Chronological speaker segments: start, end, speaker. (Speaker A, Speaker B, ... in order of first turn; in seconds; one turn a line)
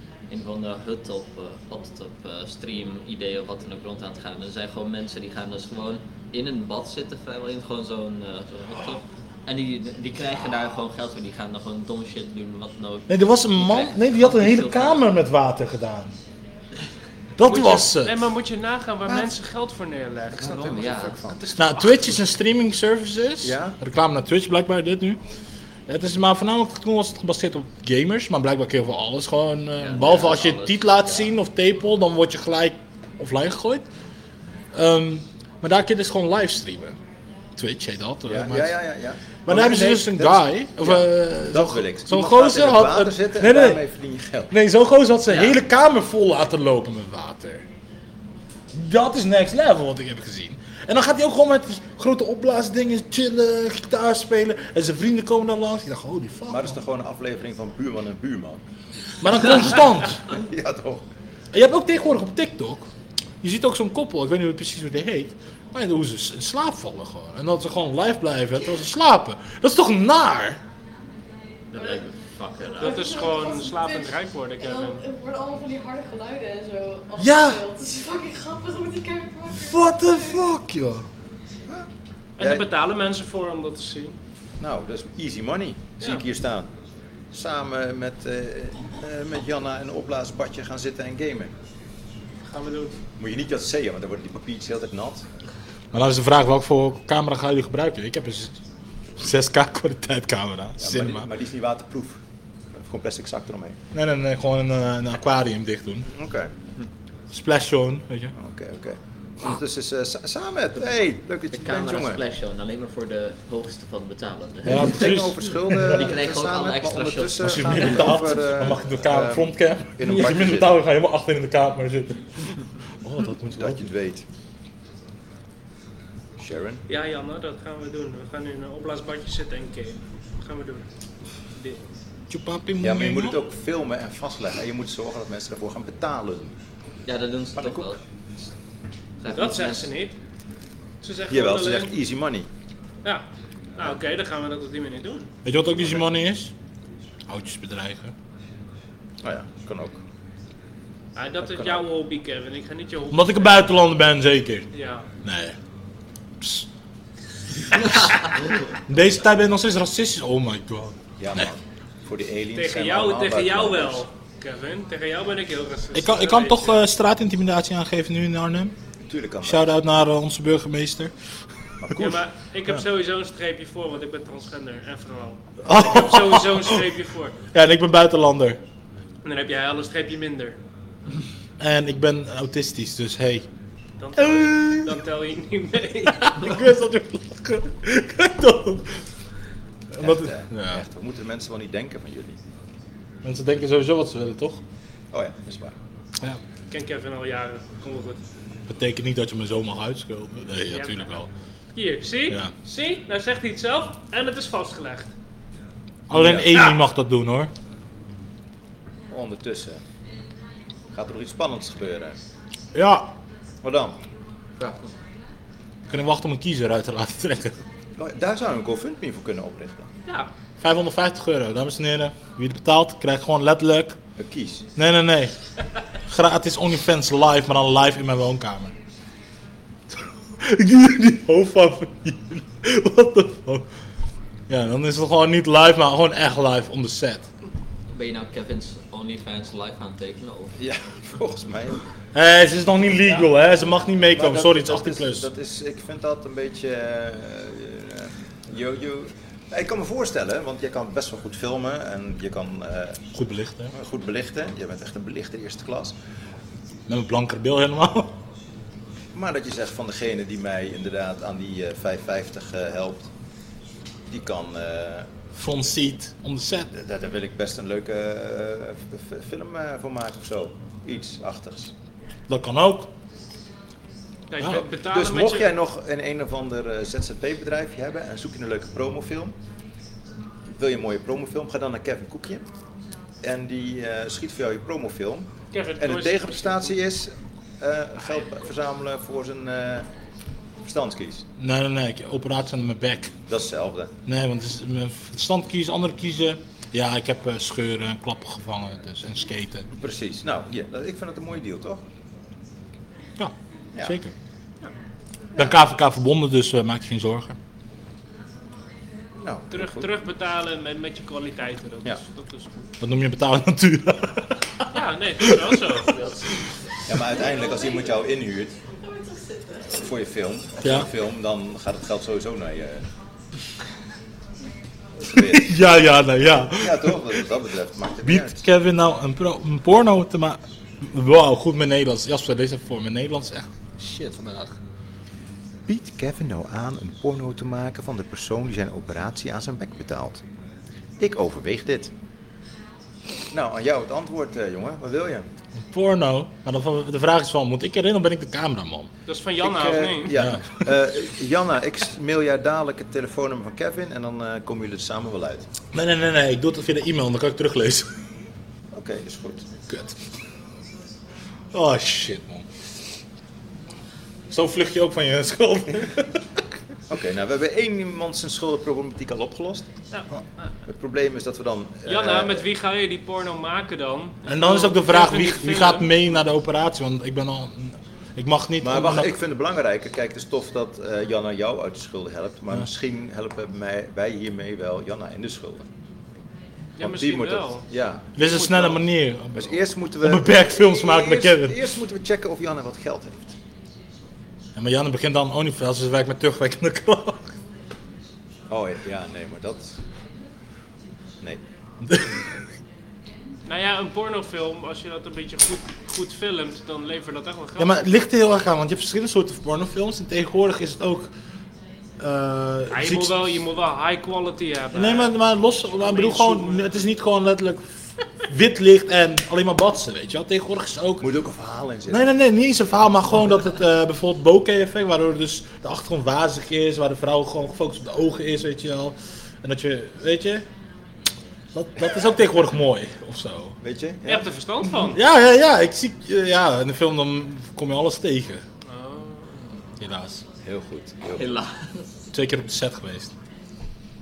Speaker A: 0.3-15.1
Speaker B: 13.1-16.1
Speaker B: 17.4-18.2
Speaker C: 17.4-22.2
Speaker D: 20.3-21.4
Speaker A: 20.6-21.2
Speaker B: 21.6-25.2
Speaker D: 23.4-23.8
Speaker B: 25.9-33.9
Speaker A: 29.8-31.3
Speaker B: 34.7-37.0
Speaker B: 37.6-38.8
Speaker D: 38.3-44.5
Speaker B: 39.5-43.8
Speaker B: 44.5-47.7
Speaker B: 48.7-56.8
Speaker D: 56.5-58.6
Speaker B: 59.2-60.2
Speaker D: 60.3-61.1
Speaker B: 61.5-62.9
Speaker B: 63.4-70.6
Speaker A: 71.7-73.4
Speaker E: 72.8-80.4
Speaker C: 72.8-75.0
Speaker B: 77.2-77.6
Speaker B: 79.5-81.1
Speaker C: 82.4-84.2
Speaker D: 82.4-82.7
Speaker D: 84.6-86.7
Speaker C: 86.0-86.2
Speaker D: 87.3-91.5
Speaker C: 92.5-93.0
Speaker D: 93.2-95.3
Speaker B: 95.9-98.6
Speaker B: 99.2-101.3
Speaker D: 100.8-102.2
Speaker D: 102.8-103.8
Speaker B: 103.9-106.1
Speaker D: 106.1-106.5
Speaker B: 107.3-108.3
Speaker D: 108.4-112.2
Speaker A: 111.5-115.0
Speaker B: 114.7-116.1
Speaker D: 114.7-120.7
Speaker A: 115.9-118.1
Speaker B: 117.4-123.9
Speaker D: 123.5-124.2
Speaker D: 126.4-126.8
Speaker C: 126.9-130.9
Speaker B: 132.3-133.4
Speaker D: 132.8-136.6
Speaker A: 137.1-138.0
Speaker D: 137.6-137.9
Speaker A: 139.2-139.9
Speaker C: 139.3-140.2
Speaker C: 141.0-141.9
Speaker D: 141.3-142.5
Speaker C: 143.8-145.3
Speaker B: 145.4-146.5
Speaker B: 147.3-148.1
Speaker D: 149.2-150.0
Speaker C: 151.2-153.7
Speaker D: 151.4-151.9
Speaker B: 153.1-154.7
Speaker C: 154.7-155.1
Speaker B: 155.2-155.6
Speaker B: 156.4-156.7
Speaker B: 157.7-161.5
Speaker D: 161.2-164.0
Speaker C: 162.6-166.9
Speaker B: 165.9-168.8
Speaker D: 169.1-169.7
Speaker B: 169.4-171.1
Speaker D: 171.8-172.2
Speaker C: 171.9-177.3
Speaker B: 175.6-176.9
Speaker B: 177.5-178.6
Speaker C: 179.2-180.6
Speaker B: 181.6-183.5
Speaker C: 184.0-186.5
Speaker B: 184.2-185.0
Speaker B: 186.2-189.0
Speaker B: 189.9-190.9
Speaker D: 190.0-192.4
Speaker B: 193.2-194.6
Speaker D: 195.1-195.8
Speaker C: 196.7-198.2
Speaker B: 198.7-201.3
Speaker C: 200.7-201.1
Speaker C: 201.8-205.1
Speaker B: 206.1-207.5
Speaker D: 206.1-206.6
Speaker D: 209.1-209.8
Speaker D: 210.9-212.2
Speaker B: 212.7-213.1
Speaker D: 213.6-214.0
Speaker B: 215.9-217.6
Speaker D: 218.0-219.9
Speaker B: 220.6-224.0
Speaker D: 224.2-224.7
Speaker B: 224.8-225.3
Speaker B: 226.1-228.8
Speaker B: 230.0-233.7
Speaker B: 234.5-237.2
Speaker A: 237.9-240.5
Speaker D: 240.6-241.8
Speaker B: 242.2-245.3
Speaker D: 244.1-253.0
Speaker B: 253.1-253.7
Speaker D: 253.7-255.9
Speaker B: 256.9-258.2
Speaker D: 259.1-263.1
Speaker D: 264.1-265.1
Speaker B: 265.3-266.7
Speaker D: 266.7-271.7
Speaker B: 272.3-272.9
Speaker C: 274.3-275.5
Speaker D: 274.4-279.4
Speaker D: 280.6-282.5
Speaker D: 283.2-289.9
Speaker C: 285.5-286.8
Speaker D: 290.6-291.3
Speaker B: 291.4-293.1
Speaker D: 293.3-293.9
Speaker B: 294.1-299.7
Speaker D: 299.8-301.8
Speaker B: 303.2-304.1
Speaker B: 305.4-307.4
Speaker D: 309.2-309.9
Speaker C: 309.5-312.7
Speaker B: 312.8-316.4
Speaker C: 314.7-316.0
Speaker D: 316.9-318.6
Speaker E: 317.2-318.0
Speaker E: 318.8-319.9
Speaker D: 319.8-322.9
Speaker B: 320.6-320.9
Speaker D: 325.0-325.6
Speaker B: 325.1-327.2
Speaker D: 326.5-328.4
Speaker B: 328.0-334.6
Speaker D: 335.7-340.2
Speaker D: 341.0-341.9
Speaker D: 343.3-345.3
Speaker B: 345.6-348.9
Speaker C: 349.1-350.2
Speaker D: 349.4-355.5
Speaker B: 350.1-350.5
Speaker B: 355.7-357.9
Speaker D: 358.7-359.5
Speaker B: 359.7-360.0
Speaker B: 361.5-362.5
Speaker B: 364.3-366.2
Speaker D: 366.9-369.7
Speaker C: 369.9-370.5
Speaker D: 370.7-372.5
Speaker C: 371.9-376.0
Speaker B: 374.3-379.1
Speaker D: 378.6-385.7
Speaker C: 386.8-388.8
Speaker D: 386.8-388.1
Speaker B: 388.2-391.7
Speaker D: 389.3-393.4
Speaker B: 394.6-397.4
Speaker D: 398.5-399.8
Speaker B: 401.8-402.2
Speaker C: 403.5-407.8
Speaker B: 407.6-411.1
Speaker B: 412.0-413.2
Speaker C: 412.7-416.7
Speaker B: 414.7-417.6
Speaker B: 418.3-421.1
Speaker D: 421.0-422.1
Speaker B: 421.9-430.5
Speaker B: 431.5-433.6
Speaker D: 433.6-434.3
Speaker C: 434.1-435.0
Speaker B: 434.8-438.4
Speaker C: 438.6-439.6
Speaker B: 439.8-440.2
Speaker D: 440.4-441.3
Speaker A: 441.1-442.0
Speaker B: 442.1-443.1